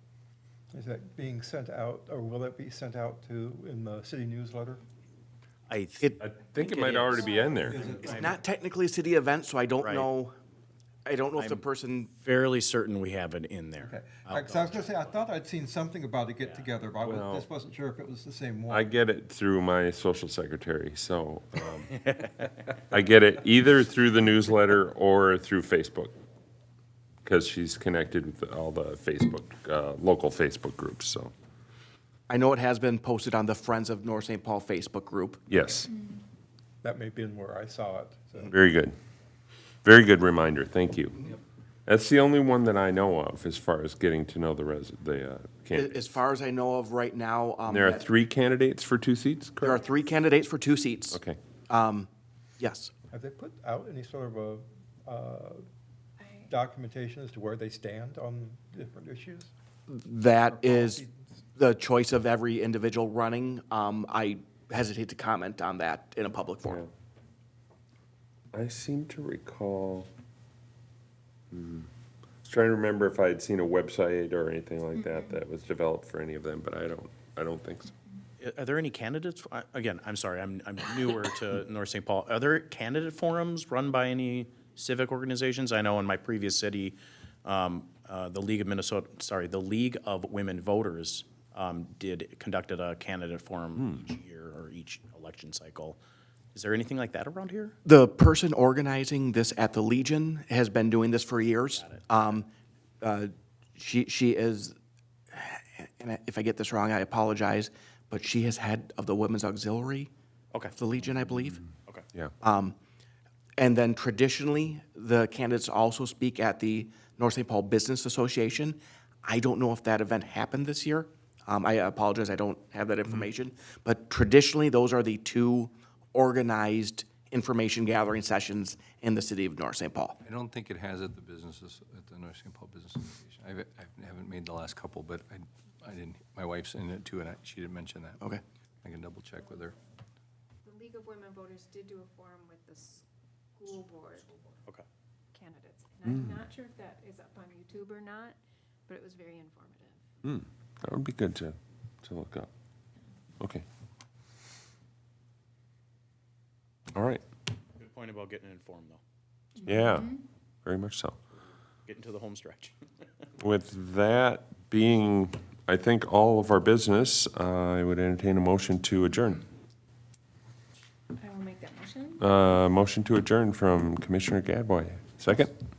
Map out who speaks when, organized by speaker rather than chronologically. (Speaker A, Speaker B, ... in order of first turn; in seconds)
Speaker A: 0.7-4.8, 7.4-8.4, 13.8-18.8, 36.8-38.5, 53.1-55.6, 56.5-59.5, 60.5-61.4
Speaker B: 5.7-8.3, 9.8-10.1, 11.4-11.6, 12.2-15.2, 21.9-22.5, 78.4-96.0, 96.5-97.7, 101.7-102.4, 157.8-159.0, 161.9-162.7
Speaker C: 6.2-7.8, 17.0-17.5, 18.7-21.9, 22.9-26.1, 27.2-31.3, 35.5-35.9, 38.5-38.9, 39.8-41.3, 41.9-46.0, 47.7-49.8, 51.1-51.4, 68.5-70.1, 71.5-71.9, 72.4-77.9, 146.0-146.4, 150.2-152.5, 156.9-157.2, 159.6-161.2, 163.4-169.5, 172.2-175.5
Speaker D: 8.0-10.3, 11.1-12.1, 32.3-35.4, 45.7-48.0, 49.6-52.1, 52.6-52.9, 59.9-61.0, 61.5-66.8, 97.8-102.5, 103.0-104.7, 105.3-110.1, 110.8-111.6, 112.4-112.8, 113.6-130.2
Speaker E: 35.9-36.2, 56.2-56.5, 75.0-75.4, 140.6-143.0, 143.6-144.4, 145.3-150.0, 159.6-160.2, 171.2-172.2
Speaker F: 130.2-138.3, 138.8-139.8